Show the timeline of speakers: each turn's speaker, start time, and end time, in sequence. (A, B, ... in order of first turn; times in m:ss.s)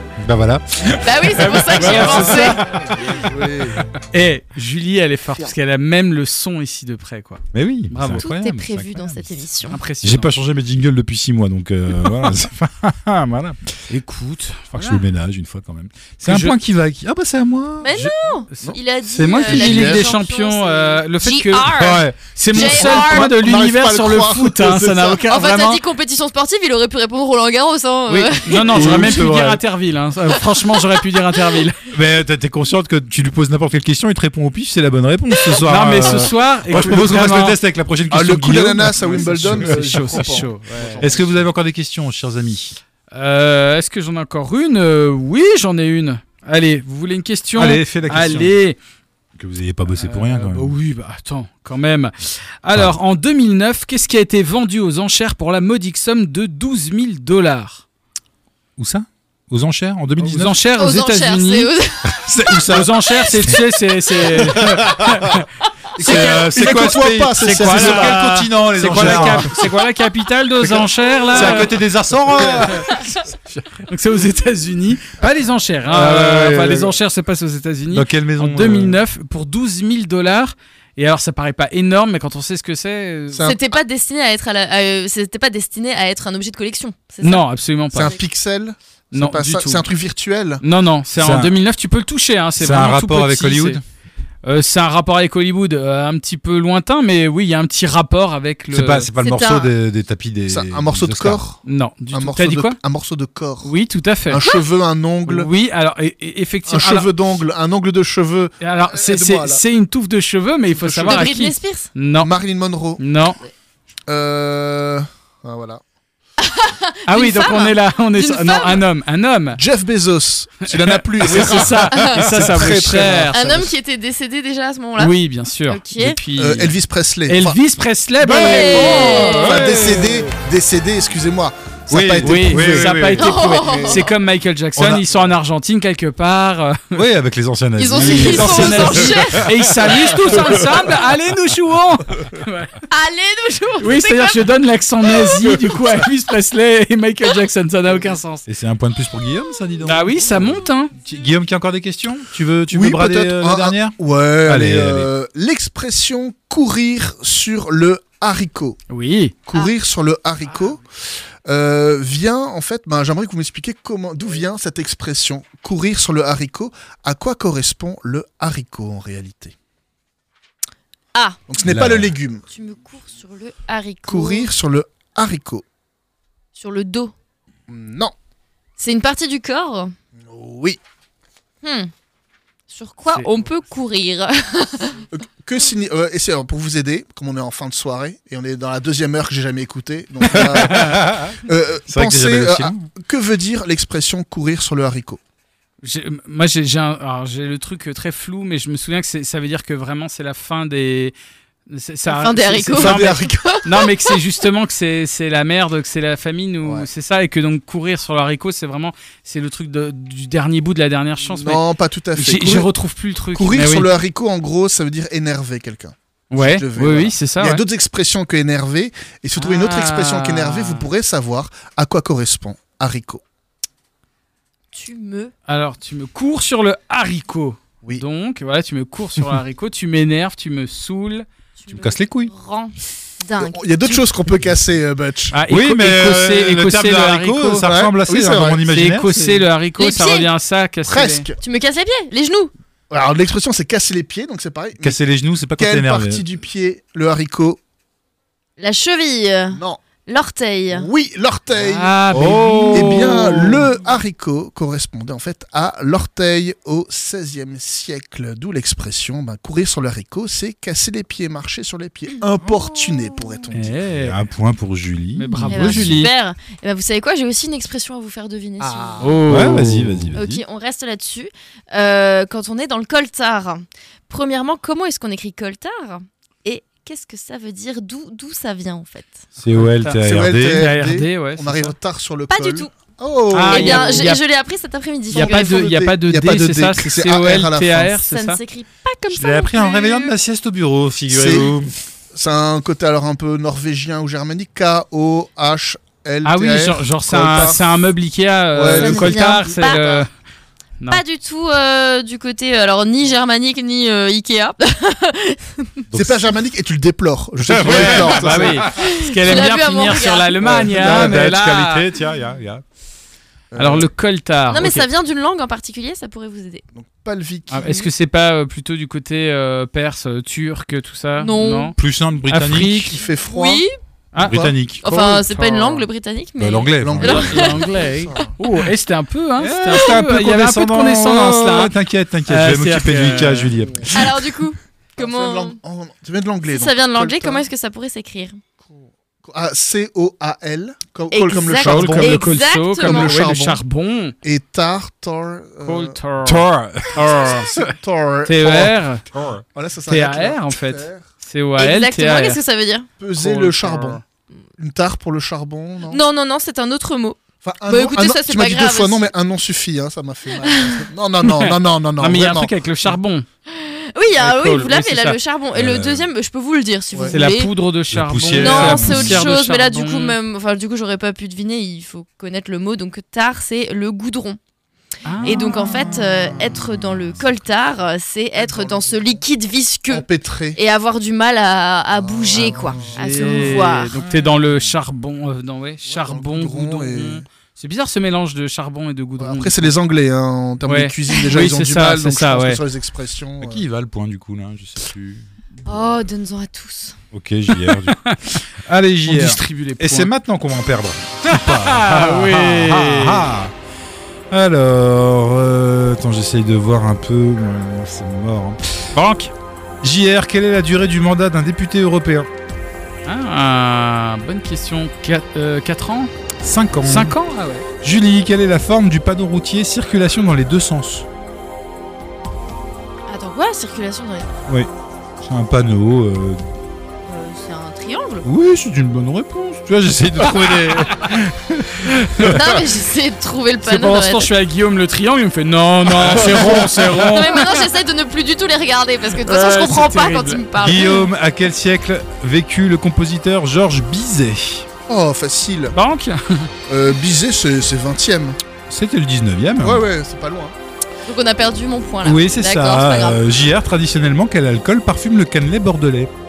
0:00.2-0:02.9 A
0:01.0-0:02.6 B
0:01.4-0:02.6 C
0:02.6-0:03.8 D
0:04.1-0:08.3 C
0:07.5-0:09.4 A
0:08.2-0:09.8 B
0:09.7-0:10.4 C
0:10.0-0:13.7 A
0:13.9-0:15.0 C
0:14.7-0:18.1 A
0:16.2-0:16.6 C
0:17.8-0:23.3 B
0:18.5-0:21.8 C
0:19.4-0:20.0 D
0:21.7-0:23.0 A
0:22.3-0:25.8 C
0:22.6-0:25.2 D
0:25.3-0:29.1 B
0:28.1-0:31.8 C
0:28.7-0:29.6 A
0:30.4-0:31.0 B
0:31.9-0:40.5 A
0:35.6-0:37.6 C
0:36.7-0:37.0 D
0:38.1-0:41.5 D
0:39.0-0:41.1 C
0:41.0-0:42.8 A
0:43.1-0:48.8 C
0:47.5-0:48.6 A
0:49.4-0:50.8 A
0:49.9-0:57.8 C
0:58.8-1:00.6 A
1:00.2-1:01.7 C
1:00.8-1:02.6 B
1:02.0-1:03.6 A
1:02.7-1:05.5 C
1:04.4-1:05.4 A
1:06.0-1:08.3 D
1:06.0-1:09.6 A
1:06.0-1:06.3 C
1:07.4-1:11.7 C
1:08.9-1:09.4 D
1:11.3-1:13.1 A
1:13.8-1:23.5 C
1:15.9-1:17.0 A
1:17.9-1:19.0 A
1:23.3-1:23.8 D
1:23.4-1:28.2 B
1:27.2-1:28.2 C
1:27.9-1:30.6 D
1:29.1-1:29.8 C
1:30.6-1:33.8 C
1:31.2-1:31.6 A
1:32.6-1:33.8 A
1:34.4-1:39.1 C
1:38.7-1:41.4 A
1:39.2-1:39.7 B
1:40.5-1:41.6 D
1:41.6-1:42.8 C
1:42.1-1:43.7 D
1:43.6-1:44.4 C
1:44.3-1:45.5 D
1:45.2-1:47.1 C
1:46.7-1:49.6 D
1:48.6-1:52.3 C
1:50.7-1:51.3 D
1:51.1-1:51.9 B
1:52.2-1:53.0 D
1:53.0-1:53.4 C
1:54.1-1:55.8 D
1:56.4-1:58.8 B
1:57.1-1:59.6 C
1:59.6-2:03.7 D
2:00.7-2:03.4 C
2:01.4-2:02.3 B
2:03.3-2:05.1 B
2:05.0-2:06.7 C
2:05.7-2:06.2 B
2:06.3-2:07.6 D
2:07.3-2:09.3 C
2:08.2-2:10.0 B
2:08.3-2:14.0 D
2:09.1-2:10.3 A
2:11.9-2:13.6 A
2:12.2-2:17.0 C
2:13.2-2:14.1 B
2:14.8-2:15.0 A
2:16.9-2:20.5 A
2:17.8-2:19.6 B
2:18.0-2:22.7 C
2:22.9-2:24.4 B
2:23.8-2:28.4 C
2:25.0-2:25.8 B
2:28.4-2:35.1 A
2:29.8-2:30.9 C
2:32.7-2:38.8 D
2:38.9-2:39.3 C
2:39.5-2:40.8 D
2:41.4-2:49.5 D
2:51.1-2:51.4 B
2:51.5-2:52.4 D
2:51.6-2:52.1 A
2:52.5-2:54.5 B
2:54.1-2:55.6 D
2:56.6-2:57.1 B
2:57.7-2:58.1 D
2:58.8-2:59.9 B
3:00.2-3:00.8 D
3:01.6-3:01.9 B
3:02.7-3:05.1 B
3:05.1-3:15.2 D
3:10.2-3:12.9 A
3:10.6-3:11.0 C
3:15.8-3:21.2 C
3:21.7-3:31.6 C
3:22.1-3:24.2 B
3:22.7-3:23.6 D
3:31.2-3:32.7 D
3:32.1-3:33.9 C
3:33.3-3:43.2 D
3:36.3-3:37.6 C
3:39.4-3:40.9 C
3:44.7-3:45.3 B
3:45.5-3:51.2 C
3:51.6-3:54.0 B
3:51.7-3:52.3 A
3:53.4-3:55.4 D
3:55.3-3:57.6 C
3:55.5-3:59.4 A
3:57.6-3:58.6 D
3:58.6-4:01.2 C
3:59.8-4:00.3 B
4:00.8-4:01.4 D
4:01.4-4:02.5 B
4:02.9-4:05.0 D
4:04.8-4:06.2 A
4:05.6-4:07.6 D
4:08.6-4:10.9 B
4:09.5-4:09.8 D
4:10.7-4:23.8 D
4:11.5-4:13.6 C
4:12.1-4:13.4 A
4:23.5-4:24.2 C
4:23.9-4:26.0 A
4:25.2-4:26.1 C
4:25.5-4:29.1 B
4:28.6-4:29.6 D
4:29.0-4:30.0 C
4:29.3-4:30.4 A
4:30.1-4:39.2 B
4:39.4-4:40.7 A
4:39.5-4:41.7 C
4:40.0-4:44.1 D
4:42.3-4:42.7 B
4:43.3-4:44.2 C
4:43.5-4:45.6 B
4:45.1-4:48.0 D
4:45.1-4:48.4 C
4:48.1-4:50.1 B
4:49.1-4:51.7 A
4:51.1-4:51.5 D
4:52.1-4:57.7 D
4:56.2-5:00.1 C
4:58.5-5:00.0 D
4:58.8-5:00.0 B
5:00.9-5:05.8 B
5:05.9-5:06.3 A
5:05.9-5:08.7 D
5:07.4-5:08.7 A
5:07.6-5:11.8 C
5:08.6-5:10.5 B
5:10.4-5:12.6 A
5:13.5-5:13.9 D
5:13.6-5:14.8 C
5:14.5-5:16.6 B
5:16.7-5:17.8 D
5:17.5-5:21.7 C
5:21.2-5:21.7 B
5:21.8-5:22.9 A
5:22.3-5:23.0 C
5:22.9-5:23.6 D
5:23.3-5:23.7 B
5:24.1-5:25.5 C
5:24.2-5:24.8 A
5:24.8-5:27.7 B
5:26.4-5:27.5 A
5:26.8-5:28.4 D
5:27.0-5:31.7 C
5:29.4-5:34.1 A
5:32.2-5:33.6 C
5:33.6-5:33.9 D
5:33.9-5:35.6 B
5:35.0-5:37.4 D
5:36.5-5:38.4 B
5:38.6-5:43.6 D
5:41.1-5:43.2 B
5:41.6-5:44.1 C
5:44.2-5:46.0 D
5:45.6-5:47.5 C
5:46.2-5:47.7 A
5:47.1-5:48.8 D
5:48.2-5:49.1 C
5:49.1-5:49.4 A
5:49.5-5:51.0 D
5:49.9-5:52.4 C
5:51.6-5:52.9 B
5:53.0-5:54.0 D
5:53.2-5:54.0 C
5:54.6-5:56.0 D
5:55.9-5:59.0 B
5:57.4-6:02.5 D
6:00.3-6:00.9 B
6:01.2-6:03.2 C
6:03.5-6:07.5 B
6:04.2-6:05.2 C
6:05.5-6:06.1 A
6:06.9-6:07.2 D
6:07.1-6:10.2 C
6:07.9-6:09.2 A
6:08.3-6:14.4 B
6:15.0-6:15.5 C
6:15.2-6:20.0 B
6:15.3-6:16.6 D
6:18.4-6:19.2 D
6:19.9-6:20.6 D
6:20.6-6:23.9 B
6:22.0-6:23.5 D
6:22.5-6:29.7 C
6:24.0-6:24.7 A
6:25.9-6:27.2 D
6:29.2-6:33.6 D
6:30.6-6:32.6 C
6:31.1-6:31.4 B
6:33.4-6:35.3 A
6:35.6-6:36.9 B
6:37.1-6:43.5 A
6:37.7-6:38.2 C
6:39.0-6:40.1 C
6:41.2-6:43.3 C
6:44.3-6:48.9 A
6:48.9-6:49.3 C
6:49.8-6:52.3 A
6:53.0-6:56.1 C
6:56.4-6:57.1 A
6:56.8-6:57.7 C
6:57.8-7:01.1 A
7:03.1-7:04.3 B
7:05.2-7:06.4 A
7:07.0-7:08.3 B
7:08.2-7:12.6 A
7:11.9-7:12.4 C
7:12.2-7:14.3 B
7:13.6-7:17.6 C
7:15.9-7:17.0 A
7:16.2-7:16.6 D
7:17.0-7:21.1 B
7:19.1-7:20.4 C
7:20.6-7:24.7 A
7:24.9-7:25.7 D
7:25.7-7:26.5 C
7:26.7-7:28.4 D
7:28.7-7:29.8 A
7:29.6-7:30.5 D
7:31.0-7:33.2 B
7:32.0-7:36.1 A